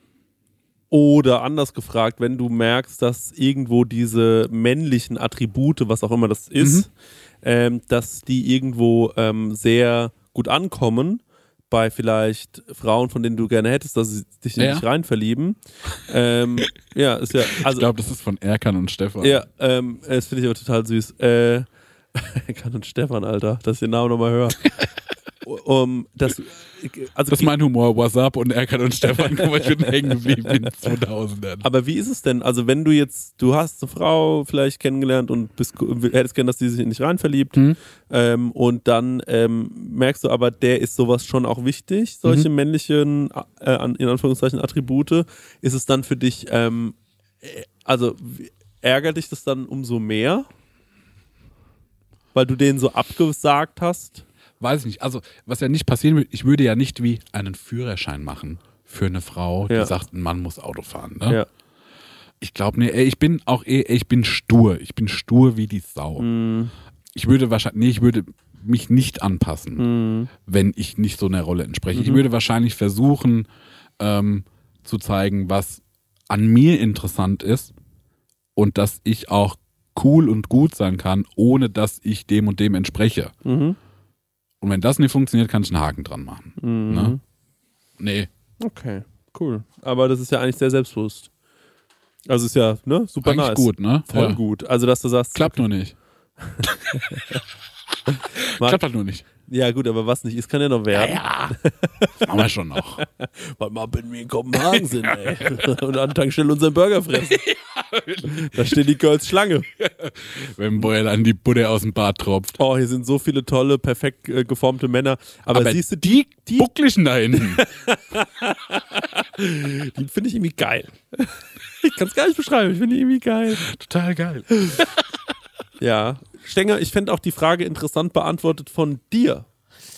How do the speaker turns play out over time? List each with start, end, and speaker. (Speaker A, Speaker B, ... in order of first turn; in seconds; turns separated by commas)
Speaker A: 0.9-6.9, Speaker B: 6.6-6.9, Speaker A: 7.4-17.9, Speaker B: 14.6-14.8, Speaker B: 17.6-19.4, Speaker A: 19.2-24.8, Speaker A: 25.4-27.5, Speaker B: 27.3-31.6, Speaker A: 29.1-30.7, Speaker A: 31.6-50.5, Speaker A: 52.3-54.2, Speaker B: 54.6-61.4, Speaker B: 62.4-66.3, Speaker A: 66.2-66.7, Speaker B: 67.2-69.9, Speaker A: 69.8-70.3, Speaker B: 70.4-73.5, Speaker A: 71.9-72.2, Speaker B: 74.0-77.7, Speaker B: 78.6-83.3, Speaker A: 83.5-83.8, Speaker B: 84.6-87.2, Speaker A: 86.6-87.2, Speaker B: 88.0-88.3, Speaker A: 88.6-91.3, Speaker A: 92.3-95.6, Speaker B: 93.2-94.4, Speaker B: 95.3-96.0, Speaker A: 96.5-97.4, Speaker A: 98.1-98.8, Speaker B: 98.6-99.2, Speaker A: 99.5-102.3, Speaker B: 100.9-101.6, Speaker B: 102.2-103.0, Speaker A: 103.0-107.4, Speaker B: 104.5-105.6, Speaker B: 107.2-108.8, Speaker A: 108.4-109.7, Speaker B: 109.8-112.6, Speaker A: 112.6-116.7, Speaker B: 115.5-117.6, Speaker A: 117.3-123.7, Speaker B: 123.6-125.1, Speaker A: 125.8-129.4